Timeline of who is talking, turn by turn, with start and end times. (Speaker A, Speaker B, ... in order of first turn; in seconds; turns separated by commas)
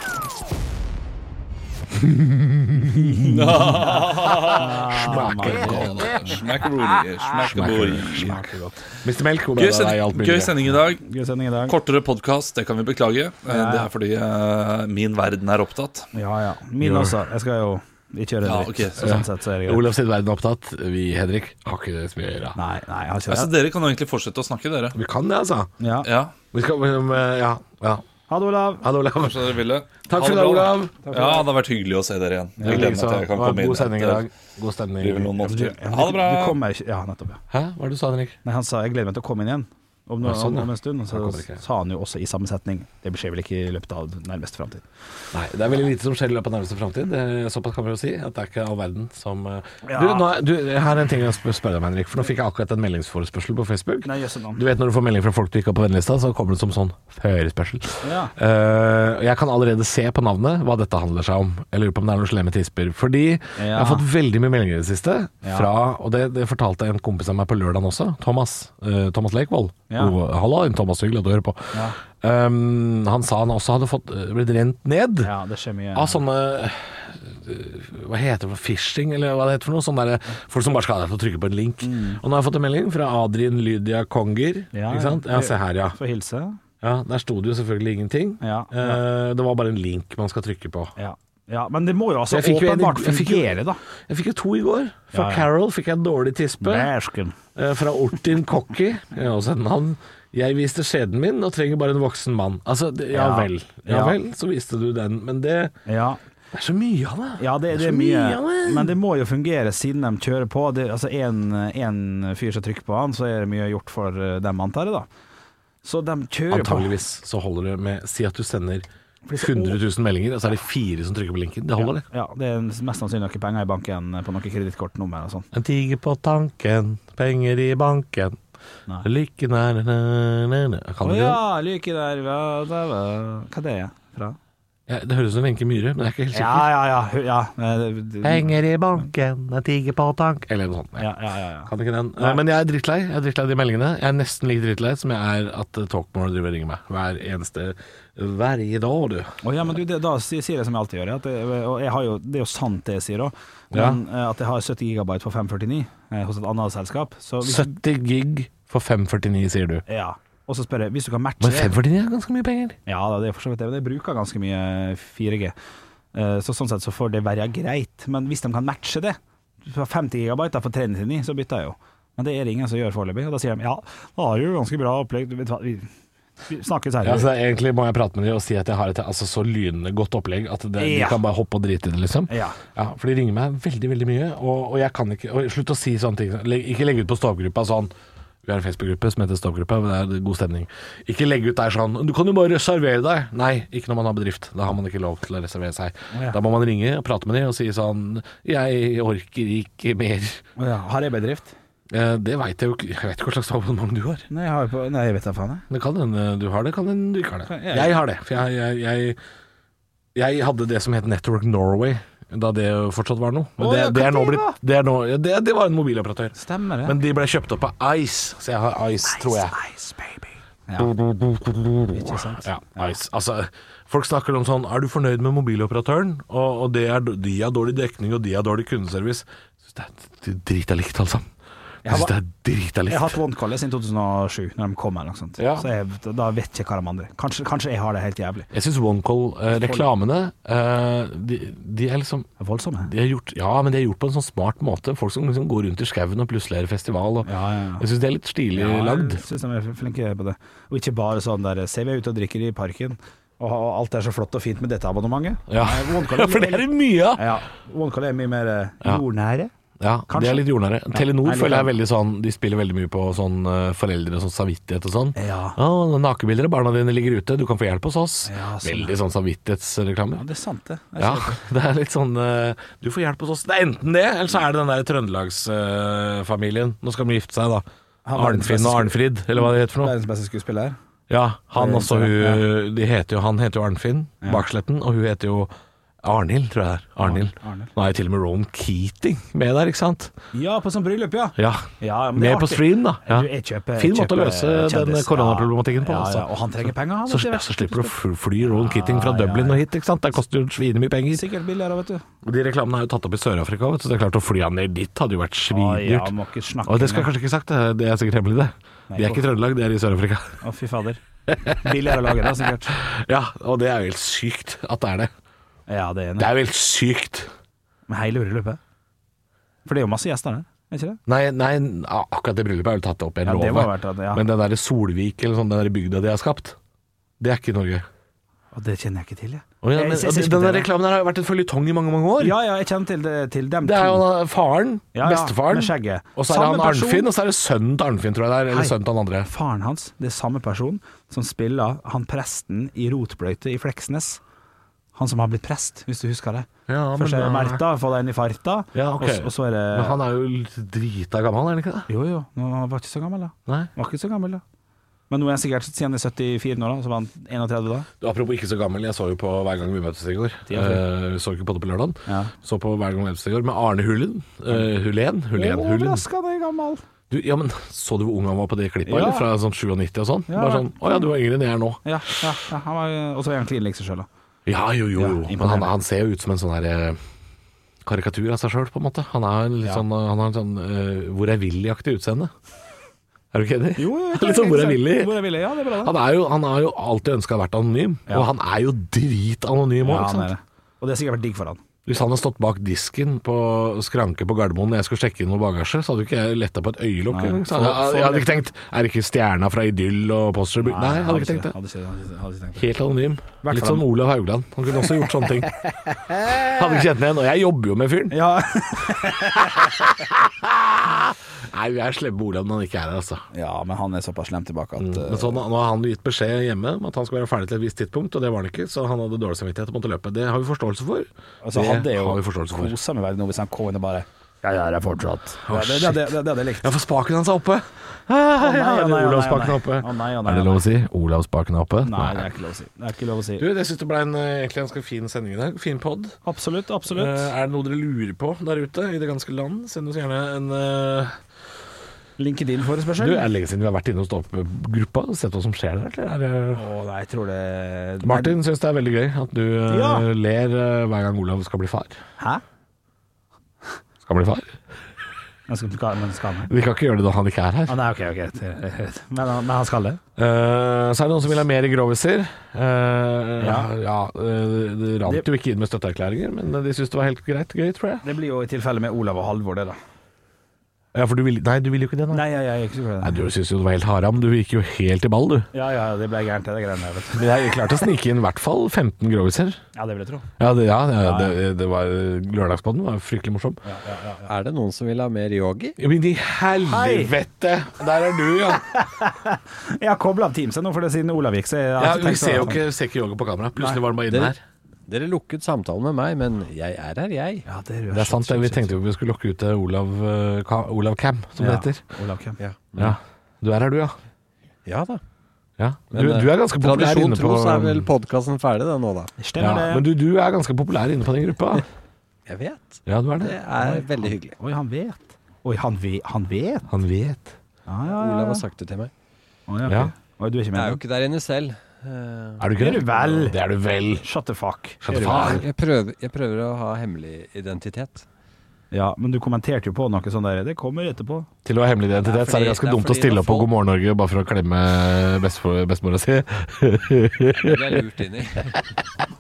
Speaker A: 3.2-8.5, Speaker B: 3.5-3.9, Speaker C: 4.5-5.9, Speaker B: 4.9-6.4, Speaker B: 7.4-8.4, Speaker C: 8.1-8.8, Speaker B: 9.0-10.7, Speaker A: 9.6-11.0, Speaker C: 11.0-11.7, Speaker A: 11.7-16.1, Speaker C: 13.5-13.9, Speaker C: 16.1-19.9, Speaker B: 16.8-17.1, Speaker A: 18.4-19.2, Speaker B: 19.0-22.6, Speaker C: 22.6-23.5, Speaker A: 23.3-25.0, Speaker B: 24.9-25.7, Speaker C: 25.8-26.1, Speaker A: 26.0-26.3, Speaker B: 26.5-28.0, Speaker C: 28.3-28.9, Speaker B: 28.8-29.5, Speaker A: 29.1-34.2, Speaker B: 30.1-30.9, Speaker C: 31.1-31.4, Speaker C: 32.6-32.9, Speaker B: 32.6-35.5, Speaker A: 35.0-36.6, Speaker C: 35.4-37.4, Speaker B: 37.5-38.4, Speaker C: 38.4-44.8, Speaker B: 40.2-41.6, Speaker B: 45.3-75.3, Speaker C: 49.8-50.3, Speaker C: 54.0-54.6, Speaker C: 58.0-58.3, Speaker C: 63.6-64.0, Speaker C: 65.4-65.7, Speaker C: 71.7-72.0, Speaker C: 75.2-76.2, Speaker B: 75.9-86.0, Speaker C: 81.8-82.2, Speaker C: 84.7-86.6, Speaker B: 86.8-90.9, Speaker C: 88.4-89.0, Speaker C: 91.0-93.8, Speaker B: 92.3-96.9, Speaker C: 95.1-95.5, Speaker C: 96.6-97.3, Speaker B: 97.5-105.7, Speaker C: 103.1-104.2, Speaker C: 105.9-106.2, Speaker B: 106.5-109.0, Speaker C: 107.4-115.1, Speaker C: 115.8-116.9, Speaker B: 116.5-122.0, Speaker C: 119.2-119.8, Speaker C: 121.8-125.5, Speaker B: 125.5-128.4, Speaker B: 129.0-131.4, Speaker C: 131.0-134.4, Speaker B: 134.9-136.7, Speaker C: 136.3-138.5, Speaker B: 138.2-141.1, Speaker C: 141.0-142.4, Speaker B: 141.7-149.3, Speaker C: 149.4-157.7, Speaker B: 153.7-154.0, Speaker B: 157.4-159.8, Speaker C: 159.9-161.7, Speaker B: 161.4-162.8, Speaker C: 162.8-165.5, Speaker C: 166.1-175.9, Speaker C: 176.4-177.3, Speaker B: 177.0-187.9, Speaker C: 180.8-181.2, Speaker C: 182.3-182.6, Speaker B: 188.4-200.4, Speaker C: 196.1-196.4, Speaker C: 200.6-201.5, Speaker B: 201.9-204.3, Speaker C: 204.3-205.6, Speaker B: 205.7-209.2, Speaker C: 207.5-208.0, Speaker B: 210.1-219.6, Speaker C: 213.6-214.6, Speaker C: 216.3-216.9, Speaker C: 219.1-220.9, Speaker B: 220.8-231.2, Speaker C: 221.9-222.9, Speaker C: 231.8-232.1, Speaker B: 231.8-233.2, Speaker C: 232.9-238.5, Speaker B: 235.4-235.7, Speaker B: 238.5-242.3, Speaker C: 239.5-239.8, Speaker C: 242.4-242.9, Speaker B: 242.8-249.2, Speaker C: 247.2-247.8, Speaker C: 248.5-259.5, Speaker B: 255.5-257.2, Speaker B: 259.8-270.2, Speaker C: 260.1-261.7, Speaker C: 265.1-265.6, Speaker C: 268.2-269.0, Speaker C: 270.1-271.4, Speaker B: 271.0-279.9, Speaker C: 278.1-280.8, Speaker B: 281.1-290.1, Speaker C: 281.6-282.4, Speaker C: 287.0-287.7, Speaker C: 290.3-299.6, Speaker B: 291.4-296.3, Speaker B: 297.1-301.2, Speaker C: 301.1-302.0, Speaker B: 302.2-310.4, Speaker C: 305.5-307.1, Speaker C: 308.9-309.2, Speaker C: 310.4-311.0, Speaker B: 311.3-312.1, Speaker C: 311.6-312.8, Speaker B: 312.7-315.1, Speaker C: 315.7-316.3, Speaker B: 316.2-317.3, Speaker C: 317.9-318.6, Speaker C: 319.6-321.0, Speaker B: 321.1-326.6, Speaker C: 323.2-324.2, Speaker B: 327.2-327.8, Speaker C: 328.5-330.7, Speaker B: 329.6-332.4, Speaker C: 332.2-334.0, Speaker B: 333.6-339.3, Speaker C: 334.9-337.1, Speaker C: 338.5-344.2, Speaker C: 344.9-350.0, Speaker B: 346.7-347.6, Speaker B: 348.7-351.9, Speaker C: 351.9-354.4, Speaker C: 355.1-357.9, Speaker B: 358.0-366.0, Speaker C: 360.4-360.8, Speaker C: 362.1-362.3, Speaker C: 365.3-366.8, Speaker B: 367.1-372.3, Speaker C: 368.8-369.3, Speaker C: 370.3-370.9, Speaker C: 371.8-374.1, Speaker B: 374.4-377.0, Speaker C: 374.9-375.7, Speaker B: 377.8-382.3, Speaker B: 383.3-390.3, Speaker C: 383.8-385.9, Speaker C: 389.8-391.6, Speaker B: 391.9-401.5, Speaker C: 397.1-398.4, Speaker C: 400.6-402.6, Speaker B: 402.6-405.6, Speaker C: 403.4-403.9, Speaker C: 404.8-405.2, Speaker C: 405.9-406.6, Speaker B: 406.1-408.2, Speaker C: 408.1-409.8, Speaker B: 408.9-413.2, Speaker C: 413.3-415.4, Speaker B: 414.8-422.7, Speaker C: 421.4-426.7, Speaker B: 425.4-432.3, Speaker C: 428.4-430.6, Speaker C: 431.9-433.4, Speaker B: 433.4-436.2, Speaker C: 436.2-437.3, Speaker B: 436.9-441.2, Speaker C: 442.2-443.3, Speaker B: 443.0-446.6, Speaker C: 446.5-448.3, Speaker B: 448.0-452.0, Speaker C: 449.7-450.1, Speaker B: 454.0-454.5, Speaker C: 455.5-456.5, Speaker B: 456.5-457.8, Speaker C: 457.7-460.0, Speaker B: 460.2-468.1, Speaker C: 463.4-463.7, Speaker C: 468.0-469.8, Speaker B: 470.9-472.3, Speaker C: 472.1-473.3, Speaker B: 473.0-475.5, Speaker C: 475.5-477.2, Speaker B: 477.1-479.6, Speaker C: 479.7-480.3, Speaker B: 480.4-483.6, Speaker C: 481.0-481.4, Speaker C: 483.6-484.3, Speaker D: 484.2-485.8, Speaker B: 485.8-488.7, Speaker C: 486.6-487.1, Speaker C: 488.7-492.6, Speaker B: 491.8-494.4, Speaker D: 494.1-494.4, Speaker D: 494.9-497.5, Speaker C: 497.4-498.7, Speaker B: 497.9-501.8, Speaker C: 501.4-502.4, Speaker D: 502.4-503.0, Speaker B: 502.8-503.9, Speaker D: 504.6-505.0, Speaker B: 505.6-507.9, Speaker D: 505.9-509.1, Speaker C: 509.2-509.8, Speaker B: 509.4-511.6, Speaker D: 512.3-514.4, Speaker B: 512.9-513.4, Speaker C: 513.5-516.7, Speaker B: 516.7-517.4, Speaker C: 517.7-518.5, Speaker D: 517.9-518.9, Speaker C: 519.5-520.8, Speaker B: 519.7-519.9, Speaker D: 520.5-522.5, Speaker B: 522.4-524.1, Speaker C: 522.6-523.4, Speaker C: 524.0-525.5, Speaker B: 524.8-525.5, Speaker D: 525.0-528.0, Speaker C: 528.7-531.3, Speaker B: 531.4-537.8, Speaker D: 532.0-533.5, Speaker D: 537.3-538.7